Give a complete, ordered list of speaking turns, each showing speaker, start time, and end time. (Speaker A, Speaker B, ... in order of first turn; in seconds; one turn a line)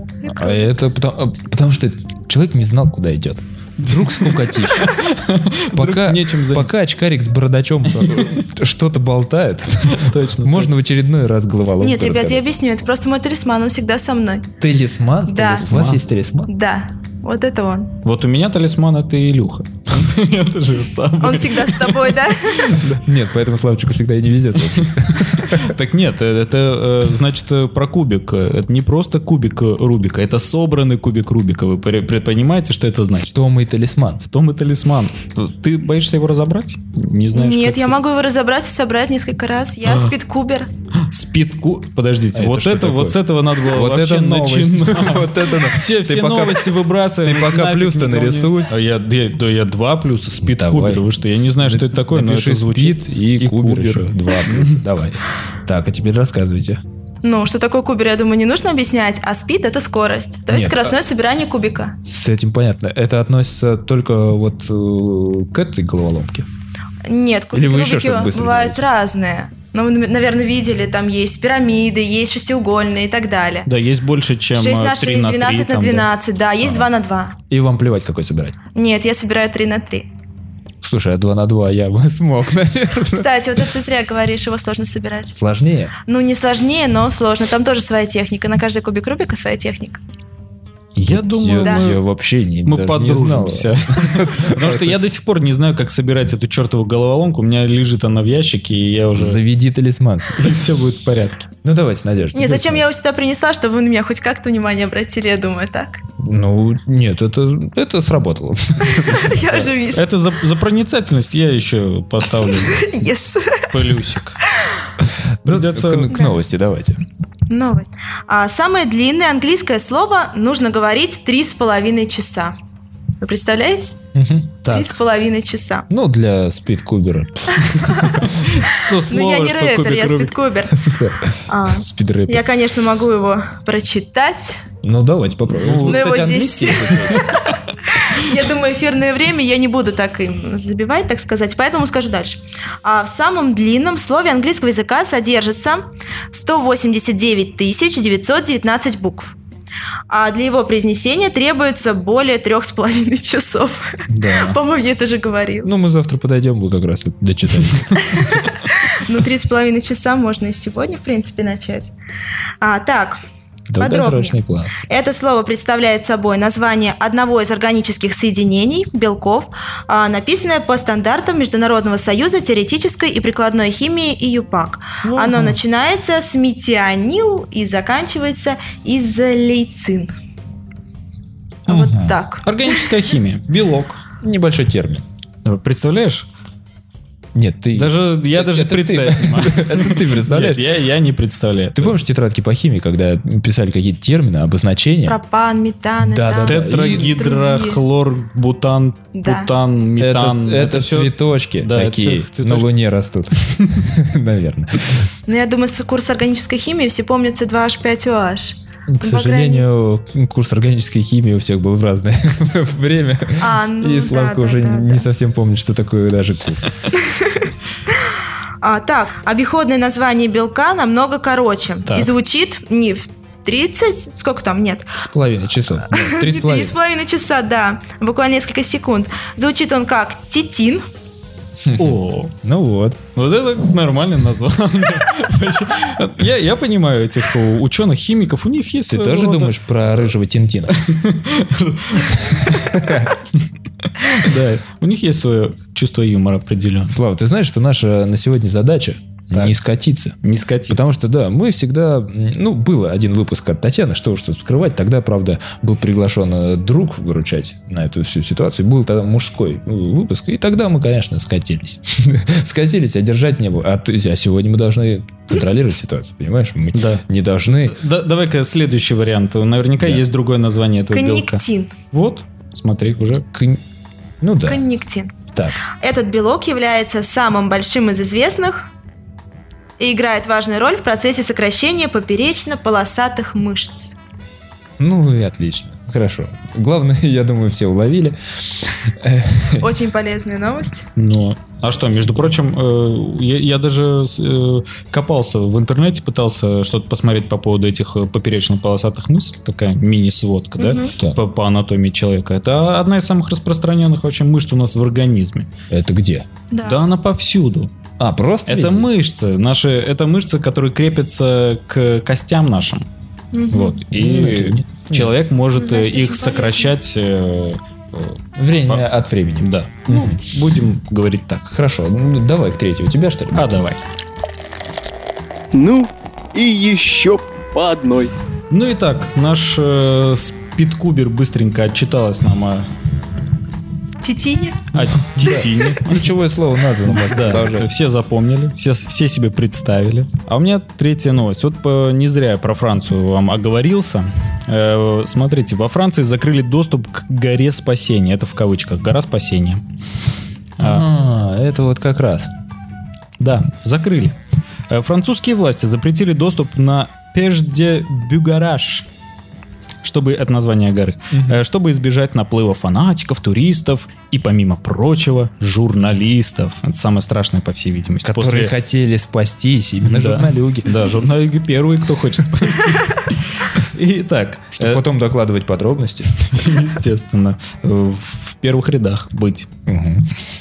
Speaker A: 0.2-4.9
Speaker B: 3.8-6.7
Speaker A: 5.7-12.5
Speaker B: 8.0-8.4
Speaker B: 9.9-10.7
Speaker C: 11.8-14.5
Speaker A: 14.6-16.5
Speaker C: 15.3-15.7
Speaker B: 15.7-16.0
Speaker C: 16.5-17.9
Speaker B: 18.0-22.8
Speaker C: 21.2-22.8
Speaker A: 22.8-25.7
Speaker B: 24.8-33.3
Speaker A: 33.2-34.2
Speaker B: 34.2-38.0
Speaker C: 37.3-40.7
Speaker B: 41.0-54.8
Speaker A: 42.3-48.8
Speaker A: 50.4-56.8
Speaker C: 57.2-62.0
Speaker A: 60.5-61.0
Speaker A: 62.0-66.5
Speaker C: 67.1-73.7
Speaker A: 67.5-68.8
Speaker B: 73.7-76.1
Speaker C: 74.5-77.4
Speaker A: 76.6-76.9
Speaker A: 77.5-78.6
Speaker C: 78.8-80.1
Speaker A: 80.8-83.6
Speaker C: 83.1-85.3
Speaker A: 85.3-85.9
Speaker C: 86.1-90.0
Speaker B: 91.0-92.0
Speaker A: 91.1-95.0
Speaker C: 91.6-91.9
Speaker B: 92.7-99.4
Speaker A: 99.2-100.6
Speaker B: 100.4-101.5
Speaker A: 101.6-102.9
Speaker C: 102.3-106.0
Speaker A: 106.2-109.7
Speaker C: 108.8-110.1
Speaker B: 109.8-112.9
Speaker C: 112.6-113.7
Speaker B: 113.7-114.4
Speaker A: 115.4-117.0
Speaker B: 115.5-116.1
Speaker C: 116.1-116.4
Speaker C: 117.5-122.5
Speaker C: 123.2-124.0
Speaker A: 124.1-124.5
Speaker B: 124.6-124.9
Speaker C: 124.7-125.9
Speaker A: 125.9-128.3
Speaker C: 127.7-128.2
Speaker B: 127.9-130.3
Speaker C: 129.1-130.9
Speaker A: 130.8-132.4
Speaker C: 131.5-134.7
Speaker A: 134.8-137.3
Speaker B: 135.5-136.2
Speaker C: 135.8-149.3
Speaker B: 137.1-137.6
Speaker C: 150.1-155.7
Speaker B: 154.1-154.6
Speaker A: 155.6-158.4
Speaker C: 158.0-161.9
Speaker C: 162.6-163.2
Speaker A: 163.7-164.8
Speaker C: 163.8-180.1
Speaker B: 175.0-175.5
Speaker A: 181.7-182.2
Speaker C: 181.7-182.5
Speaker B: 182.4-184.0
Speaker A: 184.2-185.1
Speaker B: 185.4-186.3
Speaker A: 187.3-190.7
Speaker B: 187.7-192.0
Speaker A: 191.8-195.2
Speaker C: 195.1-197.8
Speaker A: 196.0-197.2
Speaker B: 196.5-202.7
Speaker C: 199.2-199.5
Speaker A: 200.0-205.1
Speaker C: 205.3-209.7
Speaker A: 208.9-216.7
Speaker C: 213.4-215.1
Speaker C: 216.9-225.0
Speaker A: 225.0-226.7
Speaker C: 225.9-230.8
Speaker B: 226.3-226.6
Speaker A: 231.6-233.0
Speaker B: 231.8-232.3
Speaker B: 233.2-239.6
Speaker A: 238.9-240.8
Speaker B: 240.7-242.8
Speaker A: 242.1-243.2
Speaker B: 243.9-247.0
Speaker A: 246.9-267.8
Speaker B: 250.2-250.8
Speaker B: 266.7-267.1
Speaker B: 267.7-273.2
Speaker C: 270.9-271.7
Speaker A: 273.3-273.6
Speaker A: 274.2-274.6
Speaker C: 274.5-275.1
Speaker C: 275.7-278.7
Speaker C: 279.8-283.9
Speaker A: 284.8-289.7
Speaker C: 289.6-290.9
Speaker B: 291.0-305.5
Speaker C: 300.6-300.9
Speaker A: 305.7-306.3
Speaker C: 306.5-306.8
Speaker B: 306.6-307.7
Speaker A: 308.0-308.9
Speaker B: 308.5-312.9
Speaker C: 313.3-313.8
Speaker B: 313.5-318.9
Speaker A: 313.9-315.1
Speaker C: 315.6-316.7
Speaker A: 318.4-320.2
Speaker B: 319.4-321.5
Speaker A: 321.5-323.6
Speaker B: 323.3-323.8
Speaker D: 325.5-328.1
Speaker B: 328.5-332.7
Speaker C: 334.0-334.7
Speaker B: 334.7-336.1
Speaker A: 334.8-337.7
Speaker B: 336.9-349.6
Speaker B: 350.6-350.9
Speaker A: 350.6-352.3
Speaker B: 353.2-354.2
Speaker B: 354.7-358.9
Speaker B: 359.8-368.5
Speaker A: 361.1-361.4
Speaker A: 368.0-370.9
Speaker B: 369.9-374.8
Speaker A: 374.6-376.1
Speaker B: 376.2-379.5
Speaker A: 379.7-380.1